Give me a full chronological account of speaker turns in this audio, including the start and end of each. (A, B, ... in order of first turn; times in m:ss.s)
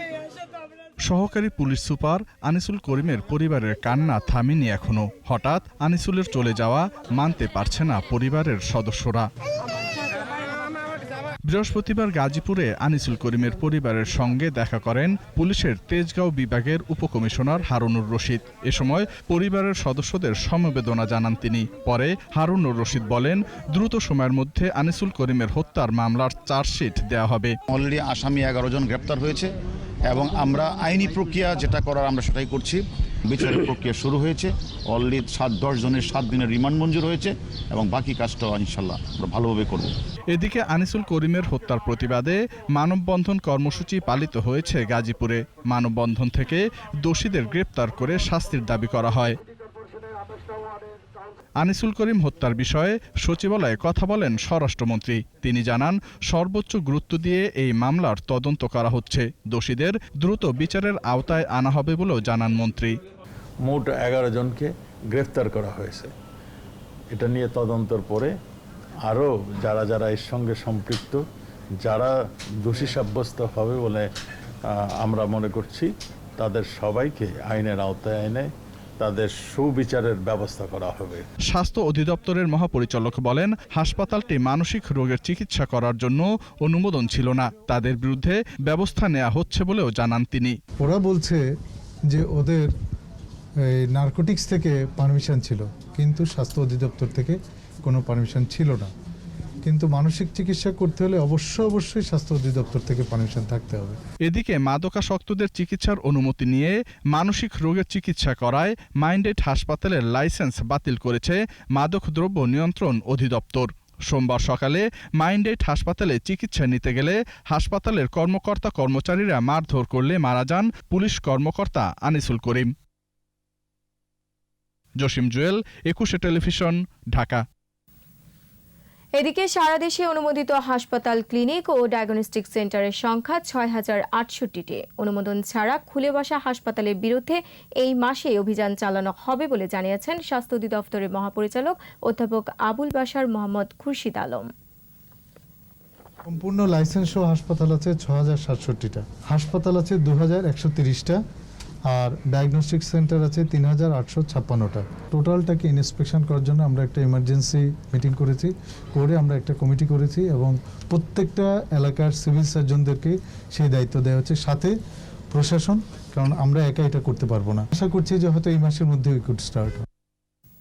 0:01.1-0:09.3 A
0:11.5-0:27.5 A
0:27.7-0:29.5 B
0:30.1-0:39.9 B
0:40.3-0:49.4 A
0:51.6-1:02.9 A
1:03.7-1:06.1 C
1:07.1-1:08.3 C
1:09.0-1:11.2 C
1:11.8-1:14.1 C
1:14.7-1:21.2 C
1:21.5-1:30.6 A
1:30.8-1:31.4 D
1:32.1-1:32.7 D
1:33.9-1:38.9 D
1:39.6-1:44.0 D
1:44.3-2:02.7 A
2:05.0-2:07.4 A
2:09.2-2:24.5 E
2:26.3-2:31.2 D
2:31.9-2:44.7 D
2:45.3-2:49.8 D